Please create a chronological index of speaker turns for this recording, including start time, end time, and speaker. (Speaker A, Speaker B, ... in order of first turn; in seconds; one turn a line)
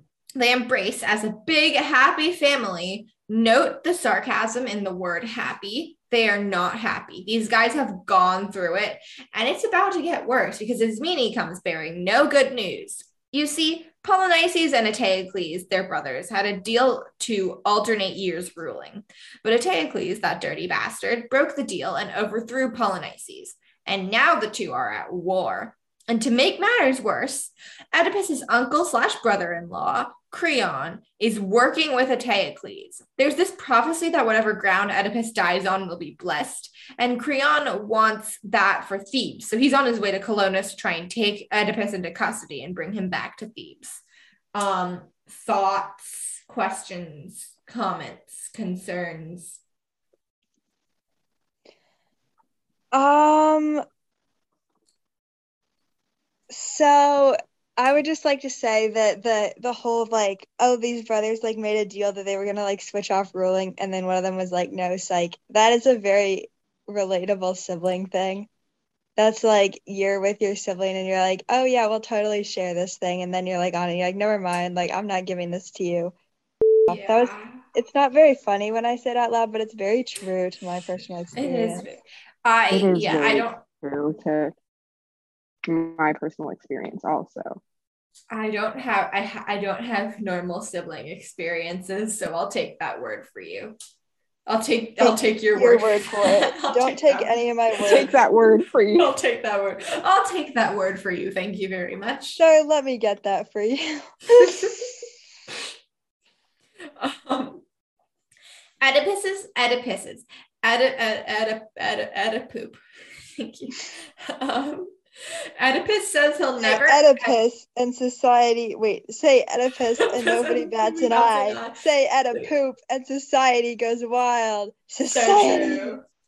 Speaker A: 0.4-44.0
Speaker A: 44.5-49.6
Speaker B: 52.9-53.8
Speaker B: 56.5-68.5
Speaker B: 69.2-76.1
Speaker B: 76.9-81.8
Speaker A: 76.9-77.6
Speaker A: 81.4-83.6
Speaker C: 82.7-84.5
Speaker C: 85.7-87.6
Speaker A: 88.3-93.8
Speaker A: 94.5-98.2
Speaker B: 95.0-98.1
Speaker C: 97.9-99.1
Speaker A: 99.0-102.4
Speaker B: 102.4-104.9
Speaker A: 104.3-105.0
Speaker A: 107.0-107.6
Speaker A: 108.8-112.8
Speaker A: 113.4-114.9
Speaker A: 115.6-117.4
Speaker B: 116.6-126.0
Speaker A: 120.0-122.5
Speaker A: 125.1-126.0